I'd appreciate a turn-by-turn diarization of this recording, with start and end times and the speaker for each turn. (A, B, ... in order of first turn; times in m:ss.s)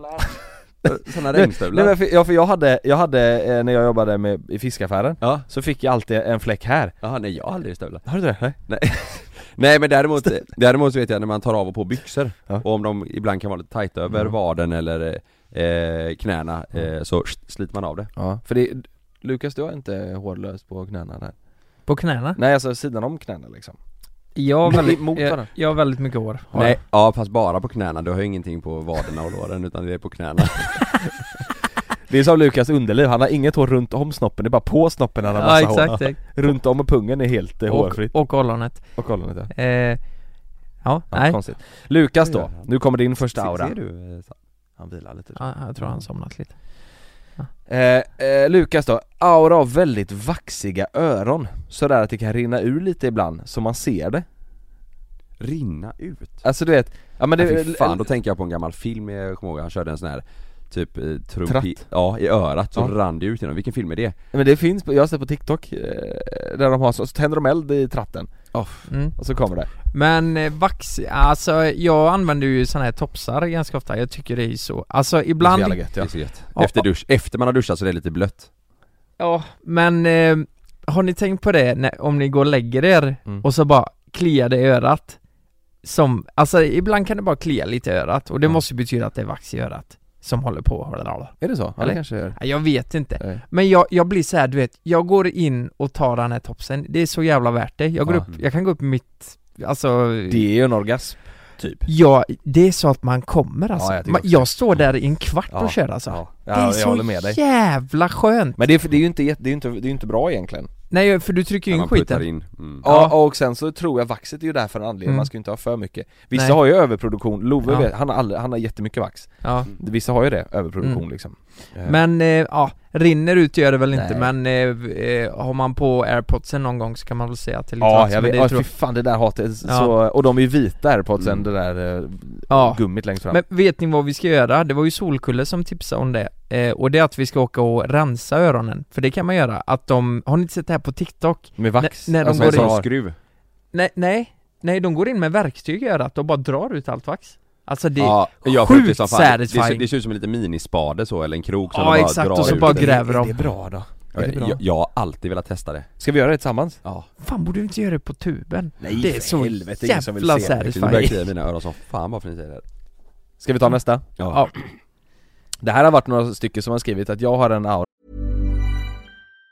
0:00.2-0:07.0 A
0:00.8-0:02.0 B
0:05.2-0:05.5 B
0:07.0-0:08.1 B
0:08.1-0:08.8 A
0:08.7-0:18.1 B
0:18.2-0:21.4 A
0:21.9-0:22.4 C
0:22.4-0:23.8 A
0:24.4-0:26.8 C
0:24.6-0:25.5 A
0:26.5-0:31.0 B
0:32.1-0:39.5 A
0:35.4-0:36.2 C
0:37.7-0:39.0 C
0:39.5-0:40.0 C
0:40.8-0:41.4 C
0:41.1-0:43.8 A
0:42.2-0:42.7 B
0:43.4-0:44.4 B
0:44.8-0:45.4 A
0:45.4-0:46.6 C
0:47.7-0:54.2 A
0:55.4-0:56.4 B
0:56.4-0:58.0 A
0:57.4-1:04.2 B
1:01.5-1:01.8 A
1:04.3-1:08.6 A
1:08.5-1:08.9 B
1:08.9-1:09.2 C
1:09.2-1:09.7 A
1:09.9-1:15.8 C
1:15.4-1:16.1 A
1:16.0-1:18.5 B
1:16.6-1:16.8 C
1:19.2-1:25.2 C
1:25.8-1:40.5 C
1:31.4-1:32.5 A
1:40.3-1:41.8 A
1:41.9-1:48.6 C
1:43.8-1:44.5 A
1:45.5-1:47.4 A
1:48.6-1:50.7 A
1:50.9-1:52.3 C
1:51.7-1:52.8 B
1:52.8-1:53.2 C
1:52.8-2:02.0 A
1:59.4-1:59.7 C
2:01.8-2:08.7 C
2:03.9-2:04.3 A
2:07.8-2:13.4 A
2:09.6-2:09.9 C
2:11.2-2:11.5 B
2:12.5-2:22.7 C
2:21.6-2:22.9 A
2:22.2-2:23.2 B
2:23.7-2:29.9 C
2:28.0-2:32.9 B
2:31.7-2:33.3 C
2:32.4-2:34.6 A
2:34.2-2:35.9 B
2:36.0-2:36.8 A
2:37.2-2:41.2 C
2:38.8-2:41.1 A
2:40.6-2:42.6 B
2:43.4-2:44.1 A
2:44.2-2:44.5 B
2:45.6-2:47.9 A